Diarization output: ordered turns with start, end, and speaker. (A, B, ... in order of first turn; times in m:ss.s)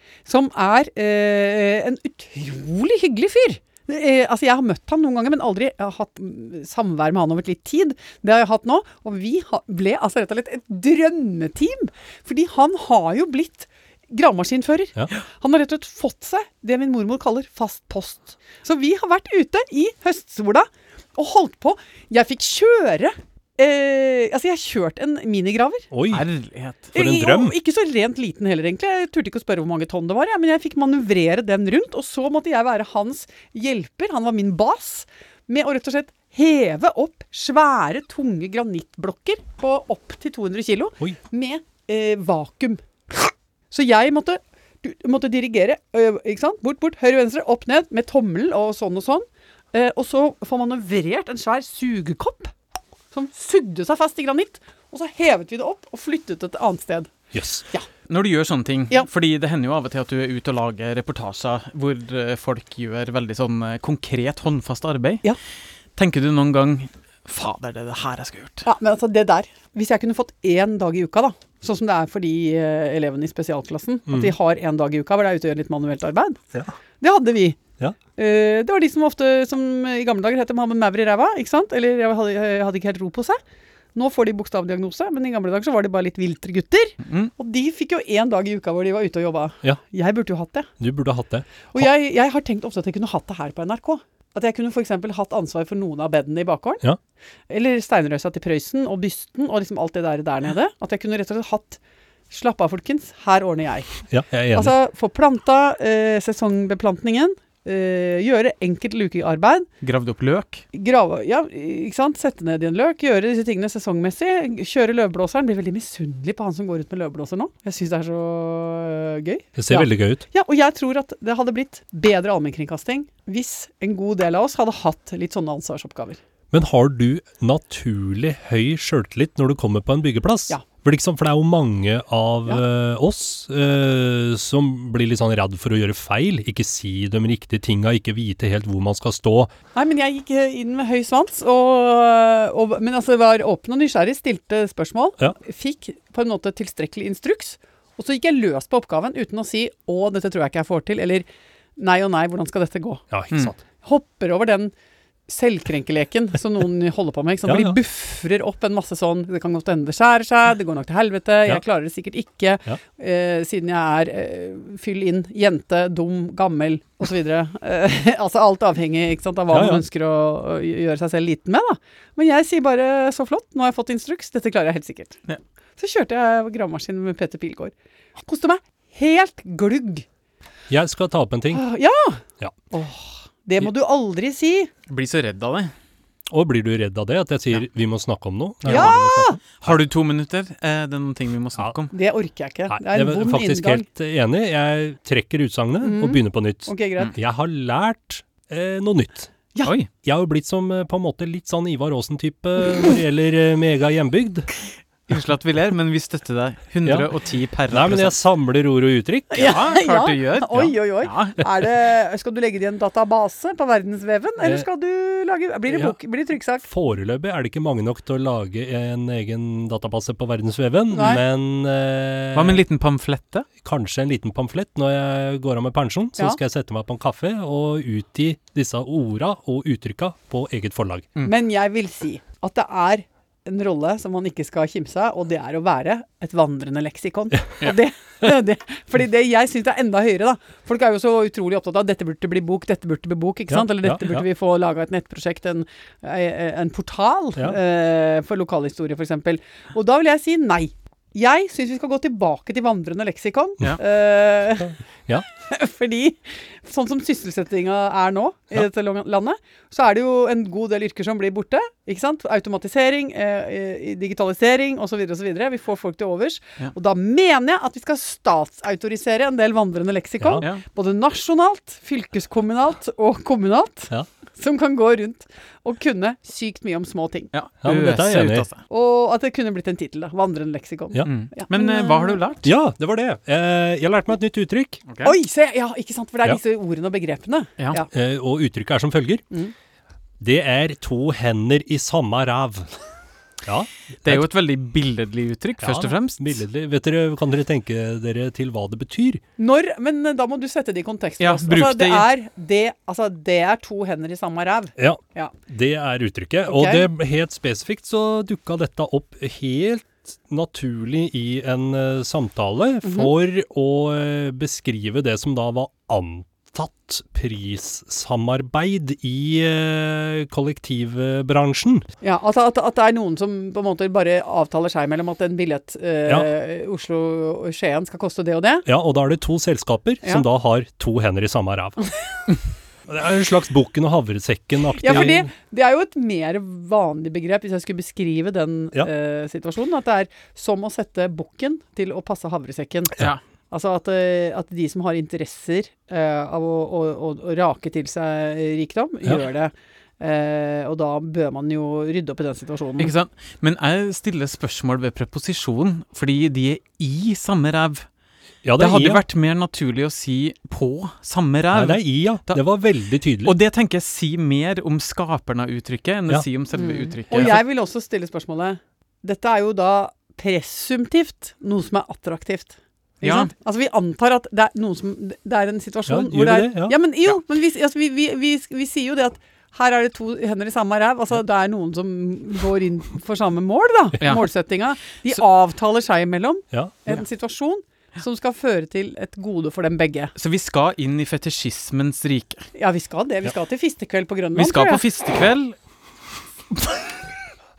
0:00.3-0:25.9 A
0:25.9-0:26.2 B
0:26.1-0:26.9 C
0:26.9-0:52.5 A
0:27.0-0:27.6 B
0:53.1-0:57.1 A
0:57.3-0:57.6 B
0:58.1-1:05.2 C
1:06.0-1:08.7 C
1:08.6-1:16.4 A
1:14.1-1:14.3 B
1:17.0-1:17.6 A
1:18.2-1:23.4 A
1:24.0-1:30.7 A
1:30.8-1:31.9 B
1:31.7-1:36.8 A
1:37.5-1:41.8 A
1:42.3-1:44.0 A
1:44.1-1:44.8 B
1:44.5-1:49.7 A
1:49.8-1:50.6 C
1:50.7-2:06.2 A
1:59.6-2:00.2 B
2:06.5-2:19.5 B
2:19.8-2:31.3 A
2:31.8-2:33.0 A
2:33.1-2:33.6 B
2:33.8-2:34.7 A
2:35.3-2:55.2 A
2:37.5-2:37.8 B
2:49.5-2:49.8 B
2:55.8-3:00.1 A
3:00.7-3:01.6 B
3:01.5-3:04.7 A
3:04.9-3:05.7 C
3:06.3-3:09.8 B
3:08.6-3:09.0 C
3:08.7-3:09.4 A
3:09.6-3:11.9 C
3:11.9-3:13.8 A
3:12.7-3:19.3 B
3:15.8-3:17.1 A
3:19.6-3:19.9 C
3:20.0-3:24.5 B
3:25.1-3:28.2 C
3:27.7-3:29.6 B
3:29.3-3:36.7 A
3:29.4-3:31.4 C
3:35.7-3:36.0 B
3:36.7-3:42.6 B
3:40.9-3:41.2 A
3:42.3-3:43.5 C
3:43.6-3:51.1 B
3:51.2-4:14.7 A
4:03.5-4:04.2 B
4:14.6-4:15.2 B
4:15.4-4:37.3 A
4:37.3-4:38.6 C
4:37.6-4:38.5 B
4:38.7-4:42.2 A
4:41.0-4:42.5 C
4:42.4-4:44.8 B
4:44.9-4:45.1 C
4:45.0-4:47.9 A
4:47.9-4:49.2 B
4:50.2-4:52.7 B
4:53.4-4:54.2 B
4:54.0-4:56.4 C
4:55.6-4:59.2 B
4:59.4-5:05.3 A
5:01.2-5:02.1 C
5:04.8-5:21.8 B
5:06.5-5:06.9 A
5:12.8-5:13.1 A
5:22.0-5:28.7 A
5:28.7-5:31.8 B
5:32.9-5:35.3 B
5:34.8-5:52.9 A
5:52.8-5:57.9 C
5:58.4-5:59.0 B
5:58.6-6:02.4 C
6:01.5-6:03.4 B
6:03.2-6:07.4 C
6:06.6-6:30.1 A
6:13.0-6:13.3 C
6:15.9-6:16.8 B
6:24.0-6:24.3 C
6:26.5-6:26.8 B
6:30.2-6:32.4 C
6:32.6-6:34.8 A
6:34.4-6:35.6 C